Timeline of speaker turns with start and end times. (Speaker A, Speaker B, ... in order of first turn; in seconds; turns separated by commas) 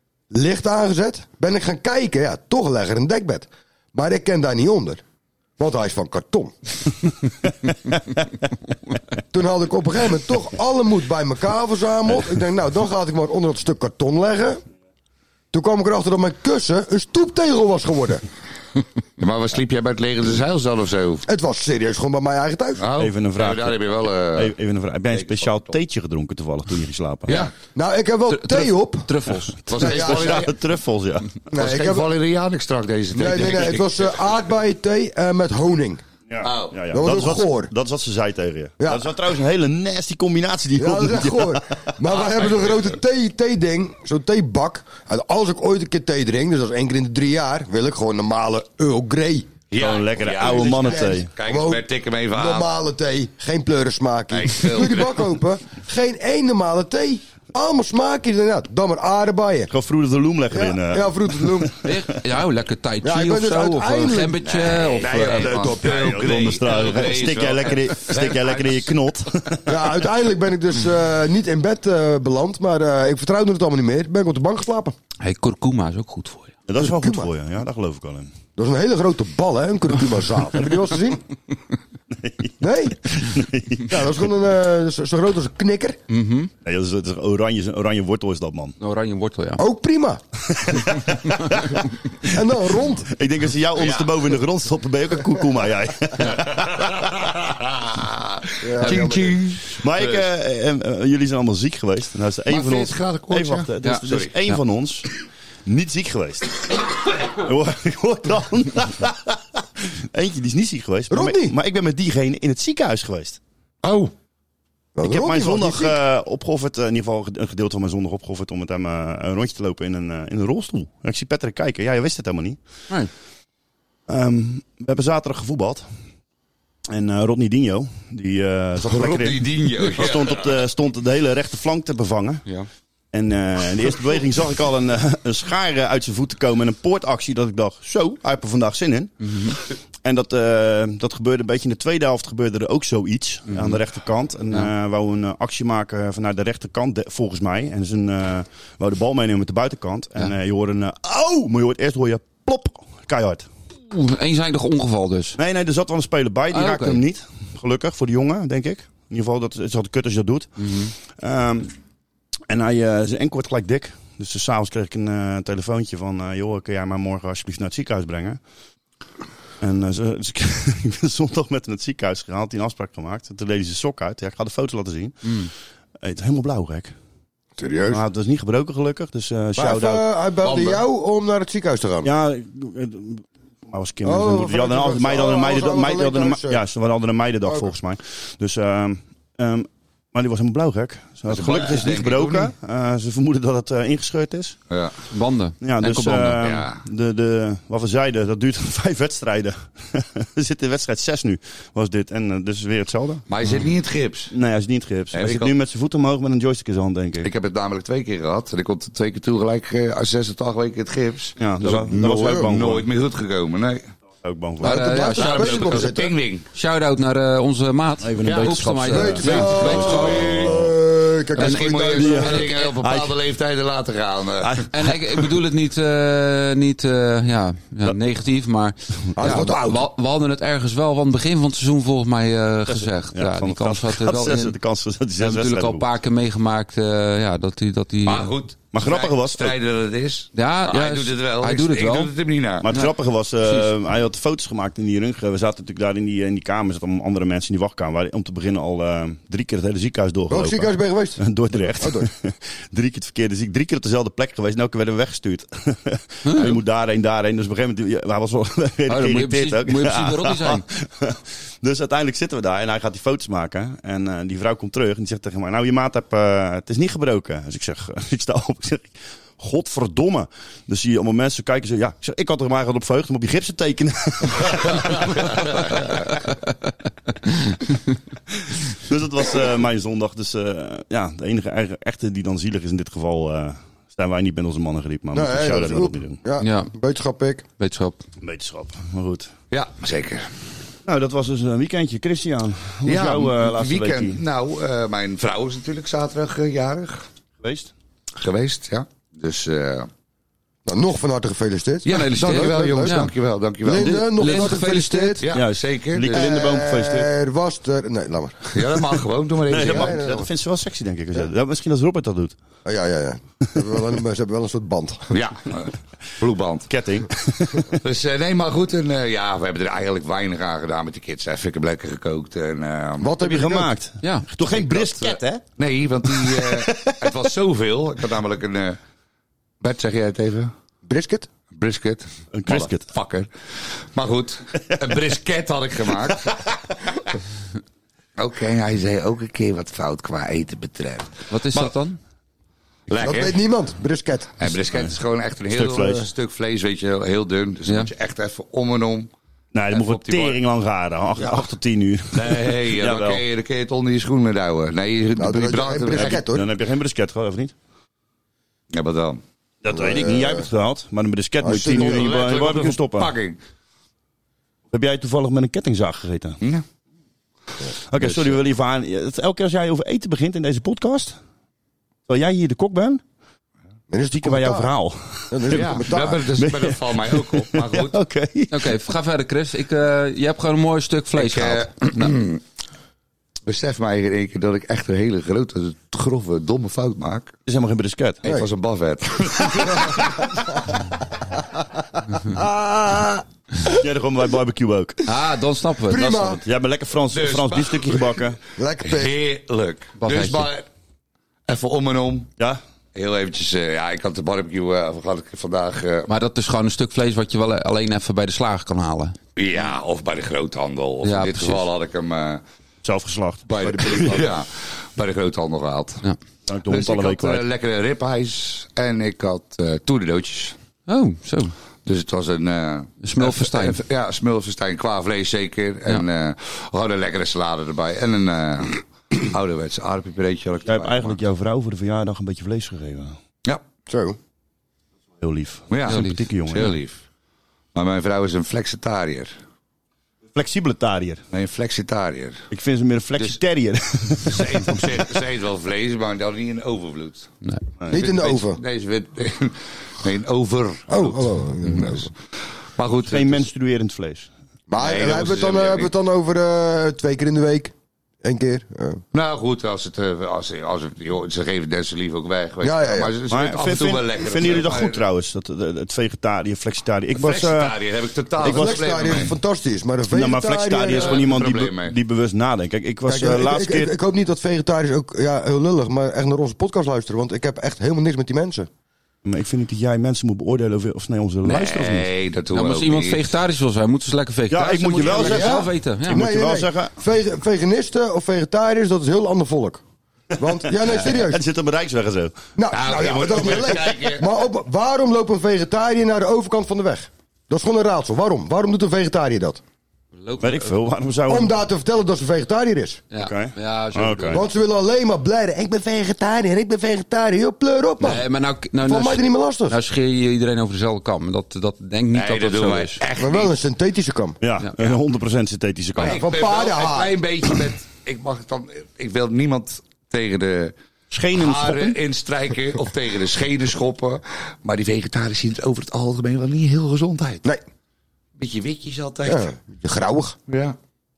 Speaker A: 0.3-5.0, Speaker A: 5.6-6.5, Speaker A: 9.3-14.6, Speaker A: 15.5-18.2, Speaker B: 19.2-21.2, Speaker A: 21.3-22.8, Speaker B: 22.8-24.5, Speaker C: 23.0-27.5, Speaker B: 25.1-25.8, Speaker B: 27.3-27.5, Speaker A: 27.7-29.1, Speaker D: 28.3-29.7, Speaker B: 29.7-30.5, Speaker C: 29.7-31.3, Speaker A: 29.8-30.4, Speaker A: 31.5-32.1, Speaker B: 31.5-34.2, Speaker A: 33.1-36.0, Speaker C: 36.3-41.9, Speaker B: 36.4-36.8, Speaker A: 36.9-37.7, Speaker A: 40.8-49.5, Speaker B: 42.1-42.9, Speaker B: 49.7-52.7, Speaker C: 49.8-51.3, Speaker A: 50.4-59.7, Speaker B: 54.3-55.3, Speaker C: 59.7-61.7, Speaker A: 60.5-61.8, Speaker D: 61.8-65.8, Speaker A: 63.0-64.5, Speaker B: 64.5-68.9, Speaker C: 65.4-70.0, Speaker A: 69.7-74.9, Speaker D: 75.2-76.5, Speaker C: 76.7-78.3, Speaker A: 76.8-77.3, Speaker A: 78.6-81.2, Speaker C: 82.2-82.5, Speaker A: 82.6-83.0, Speaker C: 83.0-84.1, Speaker A: 83.8-86.0, Speaker D: 86.1-86.5, Speaker C: 86.6-88.7, Speaker D: 88.8-89.6, Speaker A: 89.6-90.2, Speaker C: 90.5-91.7, Speaker A: 92.2-93.1, Speaker C: 93.0-97.0, Speaker B: 93.8-94.1, Speaker B: 96.6-100.2, Speaker A: 98.6-99.4, Speaker D: 98.8-99.1, Speaker C: 99.8-105.1, Speaker B: 102.5-104.3, Speaker C: 105.7-113.4, Speaker A: 111.1-111.5, Speaker A: 113.8-114.1, Speaker A: 114.9-115.9, Speaker C: 115.0-122.6, Speaker C: 124.1-125.8, Speaker C: 126.9-132.4, Speaker B: 128.8-130.5, Speaker C: 133.1-139.5, Speaker D: 139.2-139.5, Speaker C: 140.0-153.5, Speaker D: 143.5-143.8, Speaker D: 153.9-155.4, Speaker C: 155.4-161.7, Speaker D: 156.5-157.0, Speaker D: 160.6-160.9, Speaker C: 162.5-168.4, Speaker C: 169.6-175.3, Speaker D: 175.2-175.5, Speaker C: 176.0-176.9, Speaker A: 177.6-178.0, Speaker C: 177.9-180.1, Speaker A: 179.6-182.1, Speaker B: 180.4-180.8, Speaker C: 182.0-194.6, Speaker A: 184.0-186.6, Speaker B: 191.3-192.5, Speaker D: 195.1-196.4, Speaker C: 195.6-203.2, Speaker B: 196.4-196.8, Speaker B: 203.3-204.3, Speaker C: 204.3-207.3, Speaker B: 205.1-205.5, Speaker B: 207.2-213.9, Speaker C: 211.4-212.9, Speaker A: 212.0-212.5, Speaker C: 214.2-215.0, Speaker D: 214.6-215.8, Speaker A: 214.6-216.1, Speaker B: 215.0-216.4, Speaker D: 216.5-220.4, Speaker C: 218.0-220.8, Speaker B: 218.2-218.6, Speaker A: 218.9-222.5, Speaker B: 219.2-220.6, Speaker B: 221.3-224.7, Speaker D: 221.4-221.7, Speaker C: 221.8-223.2, Speaker C: 224.4-224.9, Speaker D: 224.7-234.6, Speaker A: 229.2-229.8, Speaker C: 232.7-235.9, Speaker D: 235.2-238.3, Speaker B: 238.1-242.7, Speaker C: 238.7-239.6, Speaker D: 240.3-242.1, Speaker C: 242.6-275.8, Speaker D: 243.4-243.7, Speaker A: 250.3-251.3, Speaker A: 251.8-252.1, Speaker D: 256.2-256.6, Speaker D: 258.9-260.6, Speaker C: 278.7-286.2, Speaker A: 285.1-287.4, Speaker D: 286.4-286.7, Speaker D: 287.6-288.0, Speaker C: 288.2-289.3, Speaker B: 289.5-290.3, Speaker C: 290.8-294.2, Speaker B: 292.9-297.0, Speaker C: 297.4-297.7, Speaker B: 298.2-299.9, Speaker A: 300.6-303.1, Speaker D: 301.9-303.1, Speaker B: 301.9-304.3, Speaker A: 303.6-305.2, Speaker D: 303.8-305.2, Speaker C: 304.2-304.6, Speaker B: 305.2-306.3, Speaker C: 305.3-307.1, Speaker A: 306.1-308.8, Speaker B: 308.5-309.9, Speaker C: 309.5-312.4, Speaker A: 309.5-310.3, Speaker A: 312.6-315.1, Speaker B: 315.1-316.7, Speaker C: 316.7-317.6, Speaker B: 317.8-323.2, Speaker A: 323.0-323.7, Speaker C: 323.2-325.4, Speaker B: 324.5-328.8, Speaker C: 326.0-327.2, Speaker B: 329.6-330.5, Speaker A: 330.9-331.3, Speaker B: 331.5-336.5, Speaker C: 332.3-332.9, Speaker B: 338.2-341.7, Speaker D: 341.3-342.0, Speaker B: 342.9-343.4, Speaker A: 342.9-344.3, Speaker B: 344.4-349.1, Speaker C: 344.6-344.9, Speaker C: 345.5-346.1, Speaker C: 349.5-353.2, Speaker B: 349.7-350.4, Speaker B: 352.1-356.2, Speaker A: 355.2-356.4, Speaker C: 355.9-357.5, Speaker B: 358.7-359.2, Speaker C: 359.6-363.1, Speaker A: 359.7-360.4, Speaker A: 361.4-362.1, Speaker B: 361.6-363.4, Speaker C: 364.7-366.4, Speaker C: 367.9-371.2, Speaker B: 368.0-368.3, Speaker C: 372.1-373.0, Speaker A: 373.9-374.7, Speaker C: 374.1-378.8, Speaker A: 375.3-376.2, Speaker B: 375.5-377.9, Speaker D: 378.5-381.7, Speaker B: 381.1-382.4, Speaker B: 383.4-387.3, Speaker C: 387.4-388.2, Speaker B: 388.2-390.3, Speaker A: 389.7-389.9, Speaker A: 391.6-393.7, Speaker C: 393.7-395.0, Speaker D: 395.1-396.4, Speaker A: 395.9-396.4, Speaker C: 396.4-398.4, Speaker B: 397.1-398.2, Speaker A: 398.6-399.1, Speaker B: 398.8-400.6, Speaker D: 400.0-400.5, Speaker B: 401.5-402.3, Speaker B: 402.9-406.1, Speaker D: 406.1-409.1, Speaker B: 409.4-412.4, Speaker D: 411.0-411.6, Speaker C: 412.8-414.2, Speaker B: 413.5-416.0, Speaker A: 413.6-414.3, Speaker C: 416.5-417.4, Speaker B: 416.7-420.6, Speaker D: 420.9-421.5, Speaker B: 421.8-431.2, Speaker D: 423.0-423.8, Speaker C: 430.6-433.1, Speaker A: 433.9-434.2, Speaker C: 435.2-436.7, Speaker B: 435.7-437.0, Speaker D: 435.9-436.2, Speaker B: 437.7-439.3, Speaker C: 440.3-441.2, Speaker B: 441.3-442.4, Speaker C: 442.5-445.2, Speaker B: 444.2-447.3, Speaker C: 447.8-448.1, Speaker A: 447.9-448.6, Speaker B: 447.9-452.1, Speaker A: 450.9-452.1, Speaker B: 452.8-453.5, Speaker C: 453.1-454.3, Speaker A: 454.7-459.0, Speaker B: 454.8-455.9, Speaker B: 459.1-465.0, Speaker A: 462.6-463.1, Speaker C: 463.3-467.7, Speaker B: 467.1-469.3, Speaker C: 468.4-469.3, Speaker A: 468.4-471.2, Speaker C: 470.1-473.9, Speaker B: 470.9-471.9, Speaker A: 473.1-478.7, Speaker C: 479.2-482.1, Speaker B: 481.4-483.2, Speaker D: 482.5-486.2, Speaker C: 484.5-486.9, Speaker B: 485.1-485.5, Speaker A: 485.3-489.8, Speaker A: 490.4-491.4, Speaker C: 490.6-492.4, Speaker A: 492.6-499.6, Speaker B: 492.7-494.3, Speaker D: 500.1-500.8, Speaker C: 500.4-501.5, Speaker A: 501.3-503.0, Speaker D: 503.1-504.5, Speaker C: 503.2-504.4, Speaker A: 504.3-508.2, Speaker D: 508.0-513.0, Speaker A: 508.8-509.8, Speaker B: 512.1-513.6, Speaker A: 513.1-514.4, Speaker C: 514.4-516.2, Speaker D: 514.6-514.9, Speaker B: 516.0-520.7, Speaker A: 516.0-517.2, Speaker C: 521.1-522.0, Speaker B: 521.4-527.5, Speaker B: 528.4-529.5, Speaker A: 529.2-530.4, Speaker B: 530.5-530.8